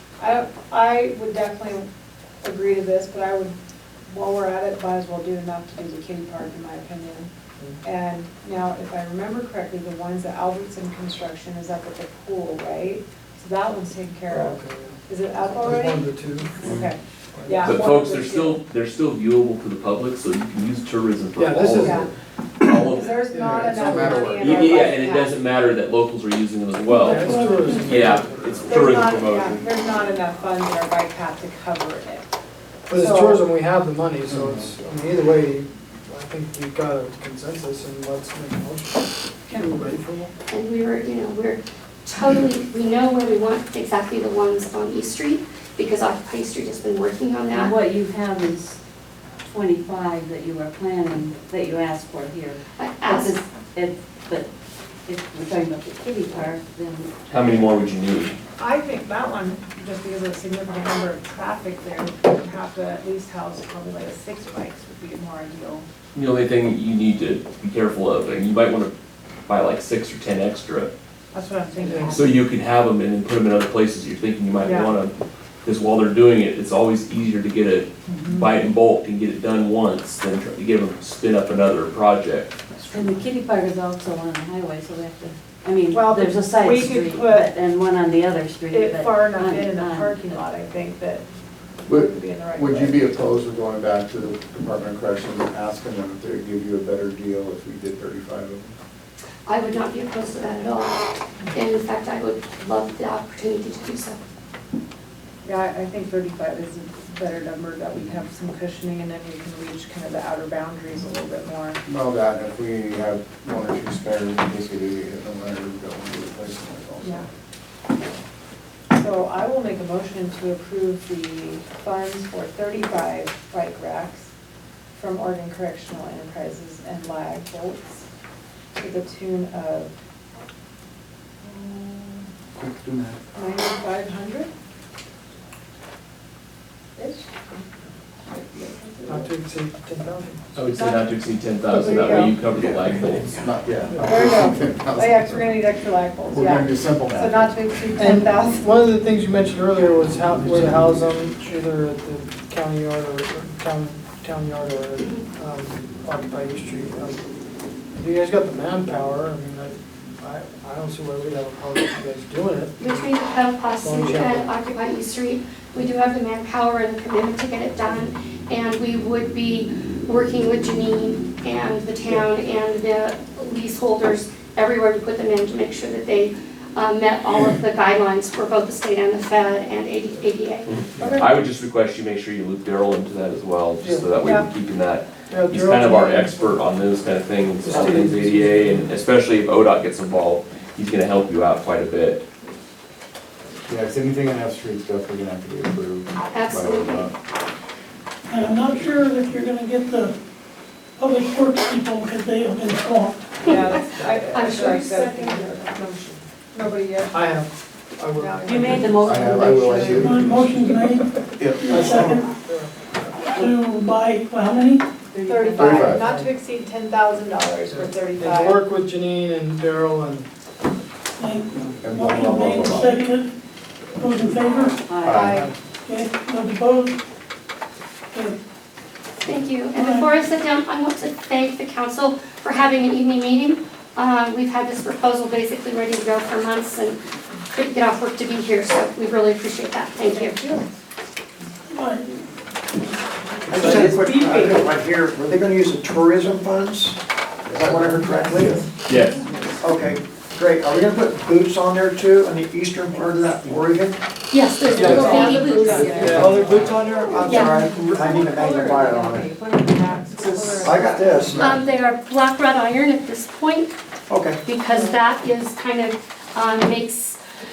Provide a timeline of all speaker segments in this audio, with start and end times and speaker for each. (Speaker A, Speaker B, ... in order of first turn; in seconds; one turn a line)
Speaker A: 0.2-1.9
Speaker A: 2.4-3.5
Speaker A: 4.1-7.3
Speaker A: 7.8-18.6
Speaker B: 14.3-16.8
Speaker B: 17.4-17.8
Speaker C: 17.6-22.1
Speaker B: 21.4-22.1
Speaker A: 21.7-22.1
Speaker C: 22.6-23.2
Speaker A: 22.6-25.4
Speaker B: 23.2-24.6
Speaker D: 23.6-24.9
Speaker C: 24.4-29.6
Speaker E: 26.9-28.1
Speaker B: 26.9-28.9
Speaker A: 28.7-32.3
Speaker B: 32.9-40.3
Speaker A: 32.9-33.4
Speaker D: 34.3-34.7
Speaker F: 40.5-47.8
Speaker G: 47.5-48.8
Speaker G: 49.5-54.5
Speaker F: 52.8-53.4
Speaker G: 55.1-57.2
Speaker C: 57.3-58.4
Speaker A: 58.6-65.9
Speaker C: 66.1-68.9
Speaker C: 69.5-70.9
Speaker A: 71.3-72.4
Speaker B: 71.8-72.2
Speaker C: 72.1-82.6
Speaker A: 74.6-75.0
Speaker A: 78.1-78.5
Speaker G: 82.8-90.4
Speaker A: 85.9-87.5
Speaker A: 88.7-91.2
Speaker A: 91.8-93.1
Speaker D: 91.9-98.8
Speaker F: 99.5-104.2
Speaker A: 105.4-111.8
Speaker D: 111.9-117.3
Speaker A: 118.9-124.3
Speaker A: 124.9-128.1
Speaker A: 128.8-129.9
Speaker A: 131.4-132.3
Speaker D: 132.6-133.2
Speaker A: 133.3-134.5
Speaker A: 137.0-137.6
Speaker A: 138.3-139.3
Speaker B: 139.1-140.6
Speaker C: 140.6-143.4
Speaker A: 140.7-141.2
Speaker B: 141.7-142.3
Speaker A: 141.7-142.4
Speaker D: 142.6-145.7
Speaker A: 144.0-148.7
Speaker D: 146.2-147.6
Speaker B: 148.0-157.2
Speaker D: 150.4-151.1
Speaker B: 158.0-163.1
Speaker F: 162.8-180.7
Speaker B: 163.8-164.5
Speaker C: 180.7-192.2
Speaker A: 181.0-181.3
Speaker B: 183.8-184.1
Speaker A: 184.2-184.5
Speaker B: 185.3-186.7
Speaker B: 187.6-188.9
Speaker D: 193.7-197.1
Speaker F: 196.3-197.1
Speaker E: 198.3-200.2
Speaker E: 201.0-203.4
Speaker F: 203.5-205.7
Speaker A: 203.5-207.2
Speaker B: 207.1-208.4
Speaker A: 208.1-209.2
Speaker G: 208.4-210.5
Speaker D: 209.0-210.3
Speaker E: 210.0-212.3
Speaker D: 211.4-212.1
Speaker H: 211.7-212.2
Speaker B: 212.4-212.7
Speaker E: 213.2-215.0
Speaker G: 215.1-216.1
Speaker A: 215.2-218.6
Speaker D: 215.6-216.0
Speaker B: 216.0-216.3
Speaker B: 217.7-220.3
Speaker E: 221.2-223.3
Speaker D: 221.8-222.9
Speaker E: 223.9-224.8
Speaker G: 224.4-225.5
Speaker D: 225.0-225.4
Speaker A: 225.1-225.5
Speaker B: 225.2-225.5
Speaker E: 225.8-227.0
Speaker E: 228.1-228.4
Speaker F: 229.2-237.0
Speaker E: 229.7-230.1
Speaker F: 237.5-240.6
Speaker E: 241.7-242.2
Speaker H: 243.5-248.7
Speaker A: 243.5-244.7
Speaker D: 247.5-248.0
Speaker C: 248.9-249.2
Speaker G: 248.9-249.5
Speaker H: 249.6-254.0
Speaker F: 254.3-256.1
Speaker B: 254.8-255.2
Speaker A: 254.8-256.7
Speaker G: 254.8-261.0
Speaker H: 254.8-255.2
Speaker B: 255.8-256.7
Speaker H: 256.0-259.3
Speaker F: 257.2-257.6
Speaker A: 258.6-259.3
Speaker H: 260.2-261.5
Speaker A: 260.2-261.4
Speaker F: 261.4-263.7
Speaker H: 264.1-264.4
Speaker F: 264.4-267.2